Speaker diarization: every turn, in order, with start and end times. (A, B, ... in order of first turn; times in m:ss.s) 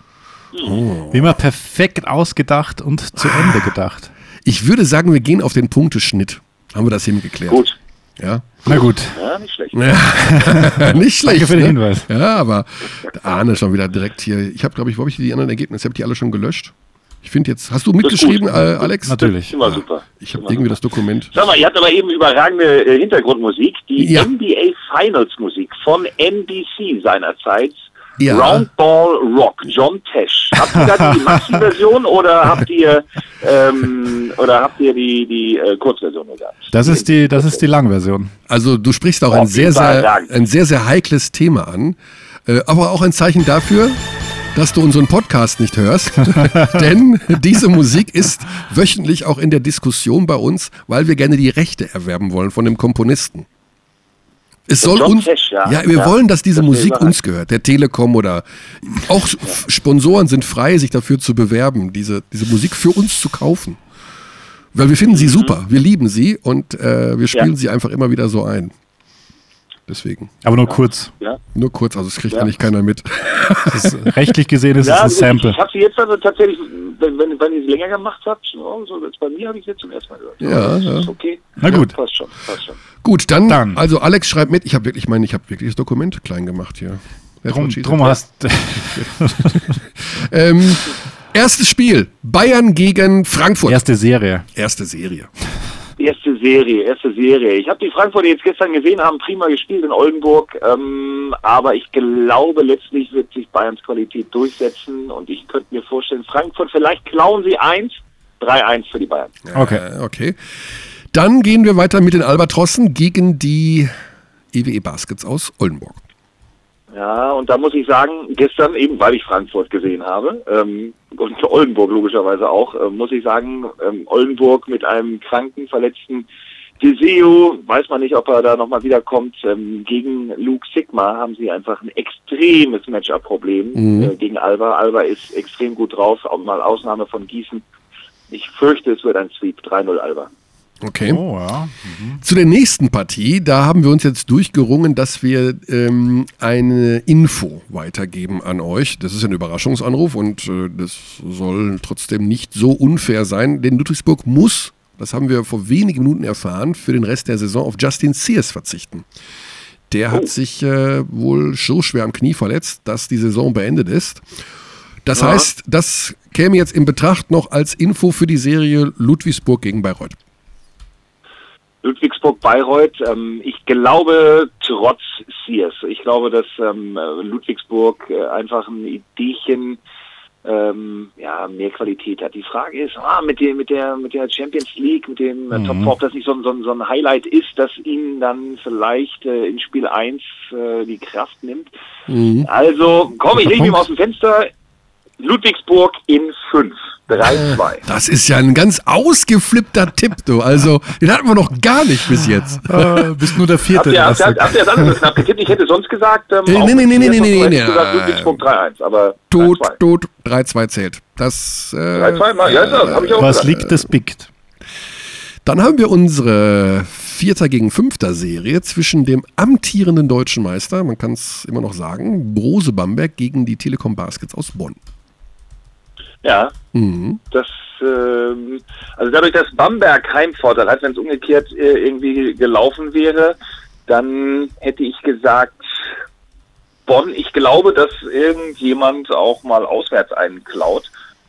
0:00.5-0:00.8 A
0:00.6-0:01.3 B
0:01.1-0:04.1 C
0:03.2-0:03.6 B
0:04.4-0:07.6 B
0:07.5-0:07.8 A
0:08.2-0:08.6 B
0:08.6-0:09.2 C
0:08.7-0:09.8 A
0:09.7-0:21.3 B
0:10.3-0:12.1 C
0:18.0-0:20.7 A
0:19.0-0:19.6 C
0:21.3-0:37.6 A
0:24.0-0:24.3 B
0:28.2-0:28.7 B
0:36.7-0:38.3 C
0:38.5-0:44.0 B
0:39.3-0:40.3 A
0:44.5-0:53.4 B
0:54.7-1:03.8 B
0:54.8-0:57.2 A
1:04.7-1:08.7 B
1:05.1-1:05.6 A
1:09.9-1:10.3 B
1:10.4-1:11.1 C
1:10.6-1:11.4 A
1:11.5-1:14.1 B
1:13.7-1:15.6 C
1:14.8-1:22.8 A
1:20.4-1:21.1 B
1:21.6-1:22.0 C
1:23.0-1:28.2 B
1:23.5-1:23.8 C
1:27.5-1:29.7 C
1:29.0-1:33.8 B
1:33.6-1:34.5 C
1:34.5-1:35.3 B
1:36.0-1:49.4 A
1:49.4-1:50.4 B
1:49.5-1:49.8 C
1:51.1-1:53.9 B
1:54.5-1:56.0 B
1:56.9-2:06.3 A
2:06.8-2:17.6 A
2:13.7-2:14.1 B
2:18.3-2:20.3 A
2:20.8-2:21.2 B
2:21.0-2:22.2 C
2:22.2-2:39.0 B
2:39.9-2:44.2 B
2:45.0-2:50.2 B
2:45.1-2:45.5 A
2:51.8-2:59.8 A
3:00.4-3:11.7 A
3:05.5-3:05.9 C
3:12.1-3:12.5 B
3:12.4-3:14.5 A
3:15.2-3:17.8 A
3:17.3-3:23.1 B
3:22.6-3:24.7 C
3:23.7-3:29.8 A
3:26.4-3:28.4 B
3:29.3-3:33.8 B
3:31.9-3:33.5 A
3:33.2-3:34.3 C
3:35.4-3:44.8 B
3:46.2-3:46.5 A
3:46.7-3:47.2 B
3:47.3-3:55.8 A
3:56.9-4:00.9 A